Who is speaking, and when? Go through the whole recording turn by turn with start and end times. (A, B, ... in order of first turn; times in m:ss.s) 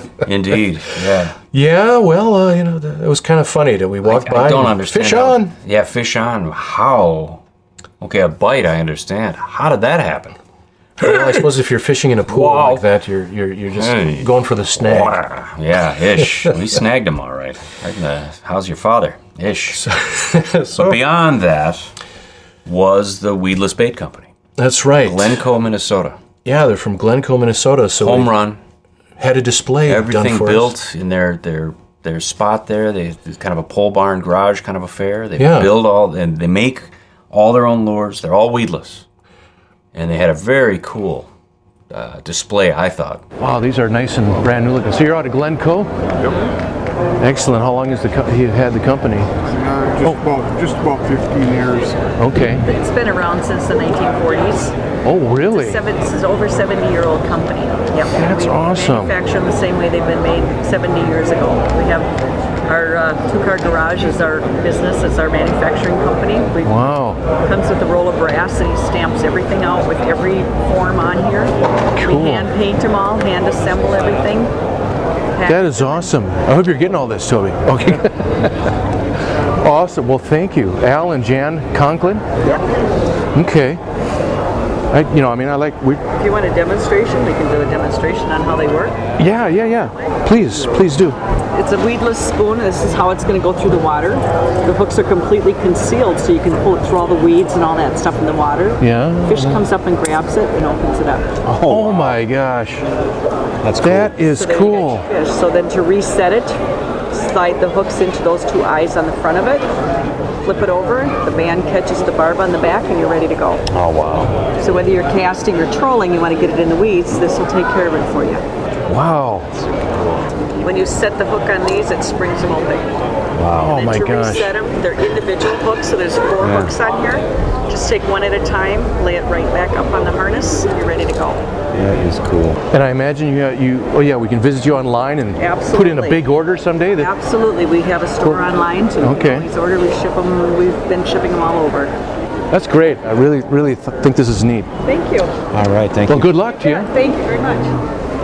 0:00.2-0:01.4 A
0:01.5-0:05.5 B
0:04.0-0:07.4 A
0:08.0-0:10.4 A
0:11.0-0:15.2 B
0:12.3-0:12.8 A
0:13.8-0:19.8 A
0:19.7-0:21.0 B
0:20.7-0:21.9 A
0:22.6-0:24.3 A
0:24.6-0:25.4 B
0:25.0-0:26.2 A
0:26.4-0:28.3 B
0:28.0-0:28.6 A
0:29.2-0:30.7 B
0:29.9-0:39.0 A
0:35.4-0:35.7 B
0:39.9-0:41.3 A
0:41.9-0:43.2 A
0:43.4-0:45.9 C
0:47.2-0:49.3 C
0:49.5-0:52.0 D
0:52.2-0:52.7 C
0:52.6-0:54.7 E
0:55.0-0:55.8 C
0:55.5-1:02.1 E
0:58.1-0:59.1 C
1:02.7-1:14.5 E
1:06.6-1:07.2 C
1:12.0-1:12.5 C
1:15.4-1:16.0 E
1:15.4-1:18.4 C
1:19.6-1:22.2 C
1:23.3-1:23.8 C
1:24.9-1:26.0 C
1:26.2-1:29.0 E
1:29.2-1:31.2 C
1:31.5-1:41.3 E
1:38.8-1:39.6 C
1:41.5-1:42.8 C
1:41.6-1:42.1 A
1:43.6-1:44.1 A
1:43.8-1:45.1 C
1:44.2-1:46.6 E
1:47.1-1:49.6 E
1:50.4-1:53.6 E
1:53.7-1:54.5 A
1:54.6-1:58.4 E
1:58.9-1:59.5 C
1:59.7-2:00.3 A
2:00.6-2:02.9 E
2:03.4-2:03.7 A
2:03.6-2:04.5 C
2:03.7-2:11.4 E
2:06.4-2:06.7 A
2:11.8-2:12.6 A
2:12.7-2:17.1 C
2:15.4-2:16.2 E
2:17.0-2:21.9 E
2:18.2-2:18.5 C
2:19.0-2:19.5 C
2:22.5-2:24.7 C
2:24.8-2:25.3 E
2:25.5-2:26.3 A
2:26.1-2:26.9 C
2:26.5-2:27.8 E